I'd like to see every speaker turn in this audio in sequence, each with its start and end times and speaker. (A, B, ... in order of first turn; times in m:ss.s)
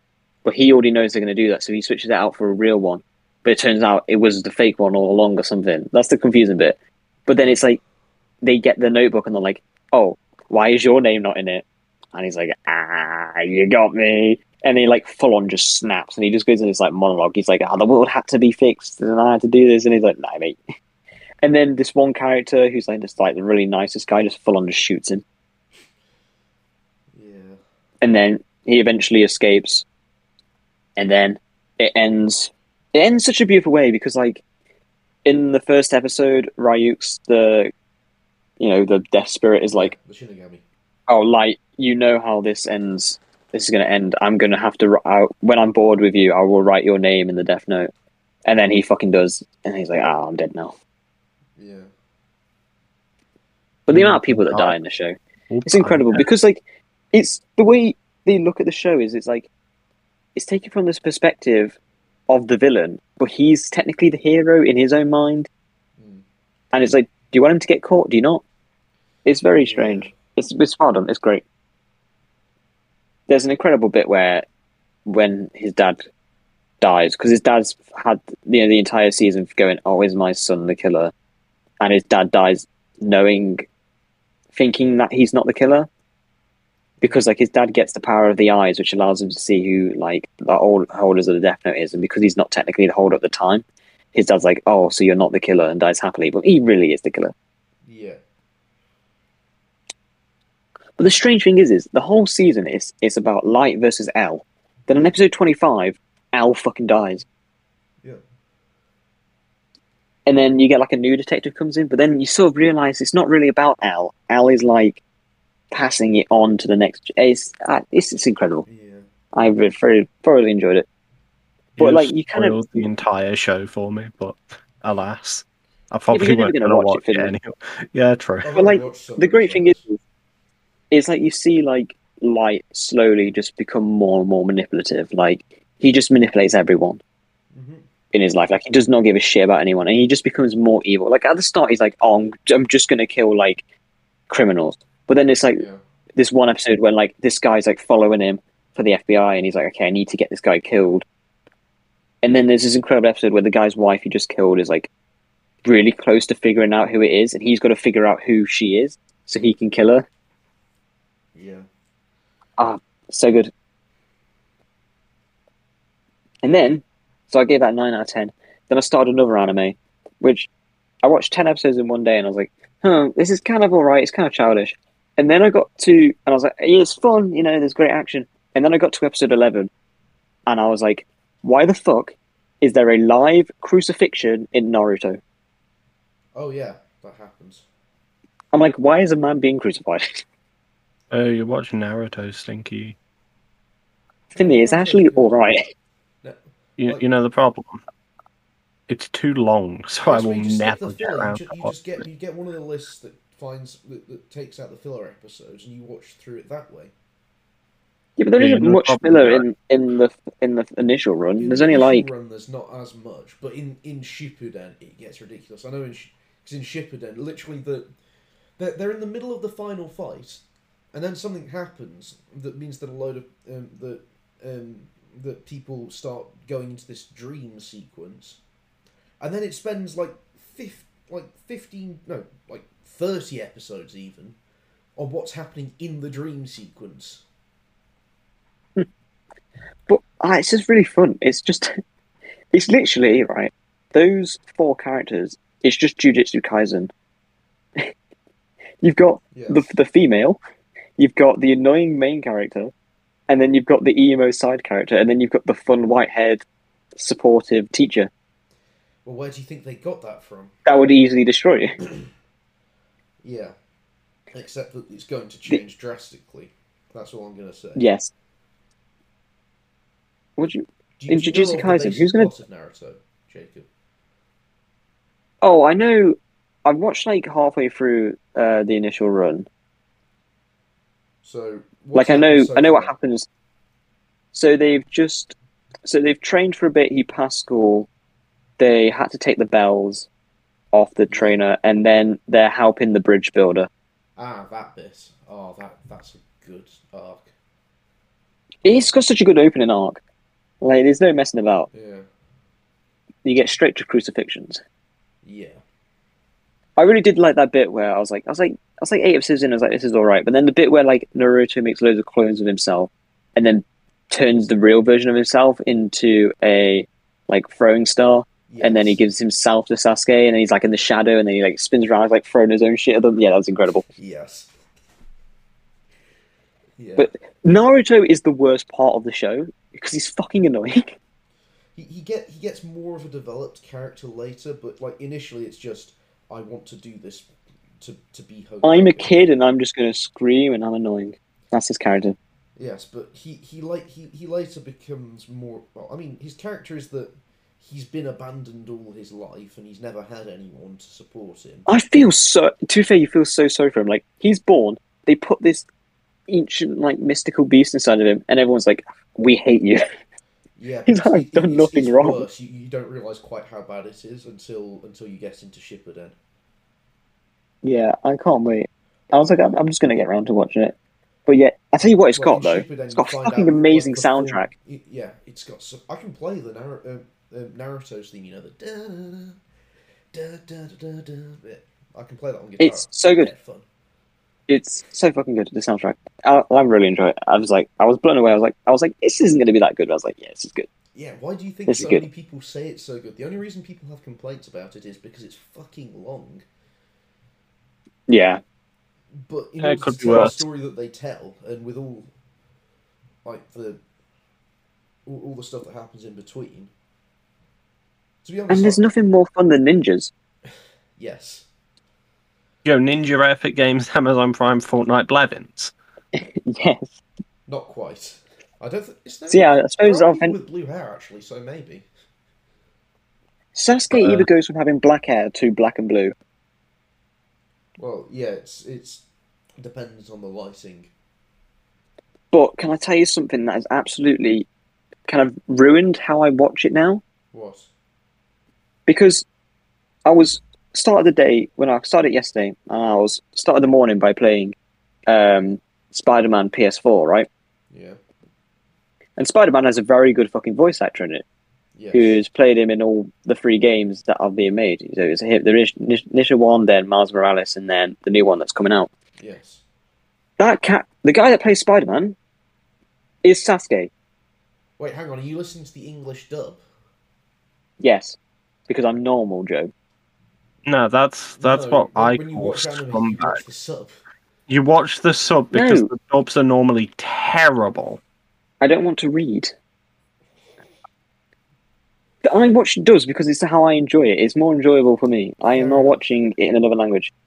0:00.4-0:07.8 A
0:08.4-0:20.6 A
0:21.4-0:25.2 A
0:27.1-0:27.6 B
0:28.0-0:29.8 A
0:31.0-0:34.4 A
0:35.2-0:37.7 A
0:38.6-0:39.9 A
0:39.7-0:40.6 B
0:41.1-0:47.9 A
0:48.5-0:50.8 A
0:51.6-0:51.9 B
0:53.9-0:56.6 A
0:53.9-0:54.8 C
0:55.5-0:56.3 C
0:57.1-0:59.5 A
1:00.4-1:01.8 A
1:02.3-1:05.5 A
1:06.0-1:06.2 B
1:06.7-1:08.4 A
1:09.2-1:11.4 A
1:09.6-1:10.2 B
1:13.3-1:14.5 A
1:15.1-1:16.0 A
1:16.8-1:21.1 A
1:21.8-1:23.7 A
1:24.5-1:25.9 A
1:27.0-1:37.3 A
1:37.8-1:38.2 B
1:41.0-1:47.2 A
1:50.3-1:55.0 A
1:55.7-1:58.7 A
1:58.7-1:59.1 B
1:59.3-2:00.9 A
2:01.8-2:08.5 C
2:01.8-2:02.9 A
2:06.1-2:07.3 A
2:08.4-2:09.8 B
2:08.5-2:10.0 A
2:10.9-2:17.0 A
2:17.5-2:17.9 B
2:18.1-2:23.6 A
2:24.3-2:25.6 A
2:25.6-2:25.8 B
2:26.2-2:31.0 A
2:32.2-2:34.9 A
2:35.6-2:40.1 A
2:41.3-2:41.7 B
2:42.6-2:43.5 A
2:46.4-2:50.5 A
2:51.0-2:59.7 A
3:00.5-3:05.2 A
3:06.4-3:07.6 B
3:08.5-3:10.2 A
3:11.1-3:13.0 C
3:14.3-3:15.6 B
3:14.4-3:15.6 A
3:16.2-3:17.0 B
3:16.8-3:17.8 C
3:18.9-3:21.8 C
3:20.0-3:26.9 B
3:28.2-3:32.1 A
3:28.4-3:29.4 C
3:31.4-3:37.9 B
3:38.6-3:48.4 B
3:49.2-3:54.4 B
3:55.0-3:57.2 B
3:59.9-4:01.8 A
4:02.5-4:06.9 A
4:08.8-4:10.4 A
4:09.3-4:09.6 B
4:11.0-4:12.7 A
4:13.3-4:16.4 A
4:17.0-4:18.1 A
4:19.0-4:20.6 B
4:20.7-4:21.8 A
4:23.2-4:23.6 B
4:24.3-4:27.8 B
4:27.8-4:28.1 A
4:30.4-4:32.3 A
4:31.0-4:33.7 B
4:35.4-4:39.5 A
4:41.2-4:42.9 B
4:42.0-4:43.3 A
4:44.3-4:45.4 A
4:45.9-4:47.9 A
4:48.6-4:50.1 A
4:50.7-4:53.7 A
4:51.1-4:51.4 B
4:54.2-4:57.3 B
4:58.6-5:00.0 A
5:00.6-5:01.7 A
5:01.7-5:02.1 B
5:03.2-5:04.6 A
5:05.2-5:05.6 B
5:06.8-5:23.9 A
5:18.5-5:19.0 B
5:24.0-5:24.5 B
5:26.8-5:27.1 B
5:27.0-5:31.0 A
5:31.8-5:39.1 B
5:38.6-5:42.2 A
5:42.6-5:51.7 B
5:51.7-5:55.7 A
5:56.3-5:59.8 A
6:00.6-6:06.2 B
6:00.9-6:02.3 A
6:07.6-6:10.8 A
6:11.3-6:14.5 A
6:12.1-6:19.4 B
6:20.1-6:23.6 B
6:22.6-6:23.3 A
6:24.5-6:30.7 A
6:30.9-6:36.4 B
6:31.7-6:32.0 A
6:38.1-6:38.4 A
6:39.1-6:42.1 B
6:39.6-6:40.4 C
6:43.2-6:43.8 B
6:45.0-6:46.7 B
6:48.2-6:48.9 B
6:48.5-6:50.1 A
6:50.5-6:51.5 B
6:52.6-6:55.7 C
6:56.2-6:57.0 A
6:57.5-7:01.9 B
6:59.3-7:00.4 A
7:03.6-7:06.1 A
7:03.9-7:04.3 C
7:07.8-7:09.0 B
7:09.6-7:10.9 B
7:12.3-7:14.5 A
7:15.1-7:17.0 A
7:17.3-7:17.7 B
7:18.9-7:19.3 A
7:20.1-7:24.6 A
7:25.1-7:27.3 A
7:27.7-7:28.0 B
7:29.2-7:31.3 A
7:31.8-7:32.2 B
7:31.9-7:38.9 A
7:39.2-7:39.6 B
7:40.4-7:42.2 A
7:43.2-7:43.9 A
7:44.8-7:46.6 B
7:47.8-7:48.2 A
7:48.7-7:49.7 A
7:50.7-7:53.4 C
7:51.4-7:54.0 B
7:54.5-7:58.0 C
7:55.5-7:55.9 A
7:58.6-7:59.5 A
8:02.2-8:07.1 A
8:05.4-8:06.0 B